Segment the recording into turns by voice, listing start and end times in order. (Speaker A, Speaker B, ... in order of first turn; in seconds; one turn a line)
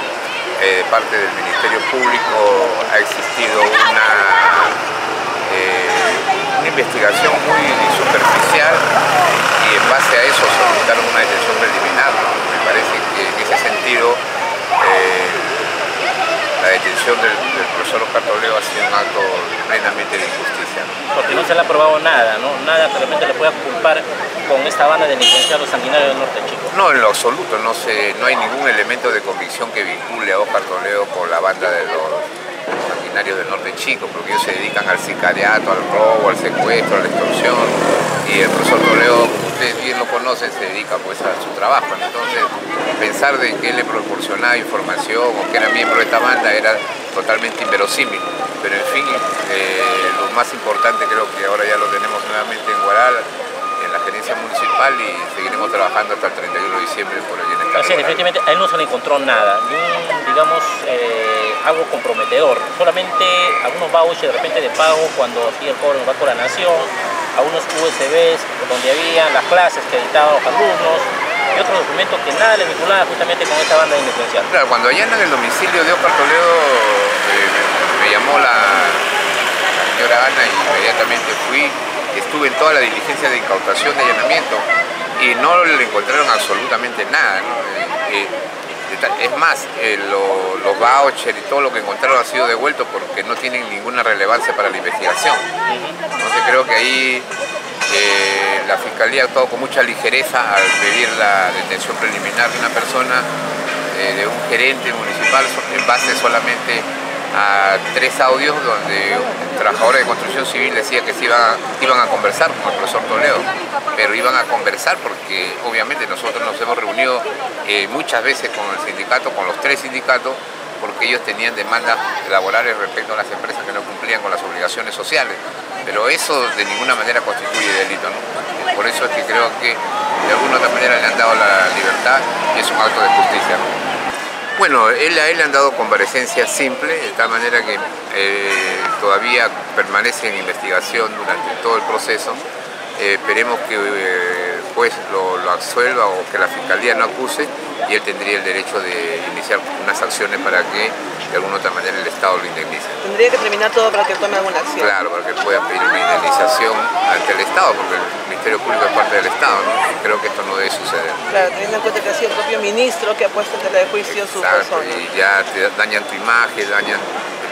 Speaker A: 0.6-4.8
Speaker A: 5.4-8.8
Speaker A: 9.6-14.2
Speaker A: 14.8-15.7
Speaker A: 16.6-21.0
Speaker B: 21.1-26.7
Speaker A: 26.7-58.2
Speaker B: 57.7-74.5
Speaker A: 74.5-79.1
Speaker A: 79.7-95.5
Speaker B: 95.7-96.0
Speaker A: 96.1-97.3
Speaker A: 97.9-103.3
Speaker A: 103.9-133.8
Speaker A: 134.6-142.4
Speaker A: 143.0-153.0
Speaker C: 153.0-154.9
Speaker A: 154.8-161.5
Speaker C: 161.3-165.0
Speaker A: 164.0-167.1